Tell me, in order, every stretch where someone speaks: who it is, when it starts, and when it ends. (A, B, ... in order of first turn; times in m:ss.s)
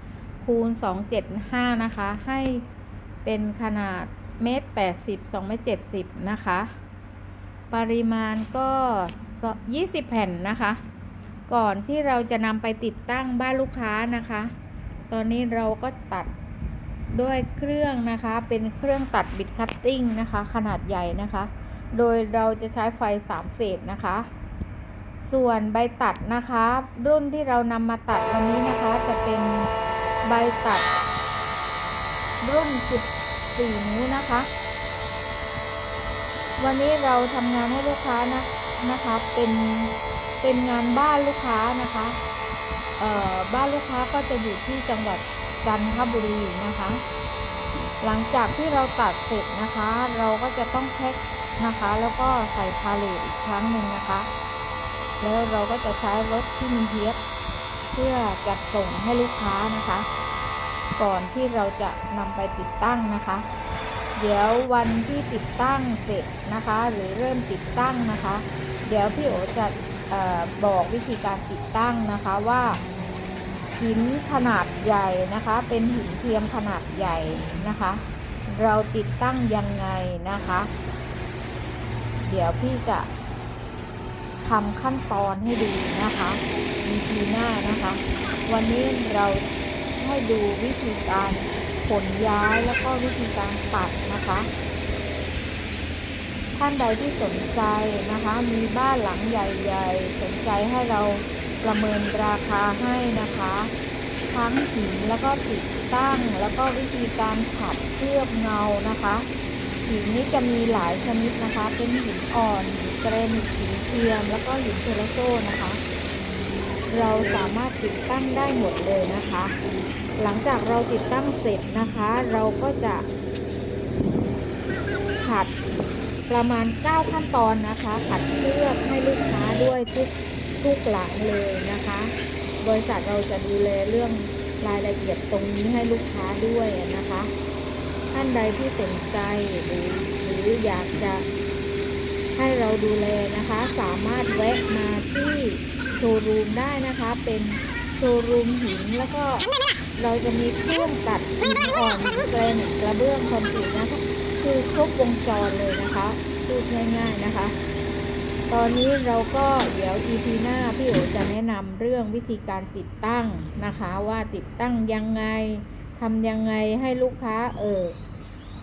0:00.4-0:02.6 A
0:03.2-0:06.7 A
0:07.7-0:10.8 A
0:11.5-0:14.5 A
0:15.1-0:16.3 A
0:17.1-0:24.3 A
0:25.2-0:29.7 A
0:30.2-0:30.9 A
0:32.4-0:34.5 A
0:36.6-0:42.2 A
0:43.0-0:47.0 A
0:48.0-0:54.3 A
0:55.2-0:57.2 A
0:57.9-1:00.1 A
1:01.0-1:03.5 A
1:04.2-1:12.8 A
1:13.8-1:20.7 A
1:22.2-1:23.1 A
1:24.4-1:34.5 A
1:36.6-1:43.7 A
1:44.3-1:49.3 A
1:49.8-1:55.8 A
1:56.9-1:59.5 A
2:00.2-2:03.0 A
2:05.2-2:05.5 A
2:06.3-2:17.3 A
2:18.1-2:21.2 A
2:22.3-2:37.6 A
2:38.5-2:47.9 A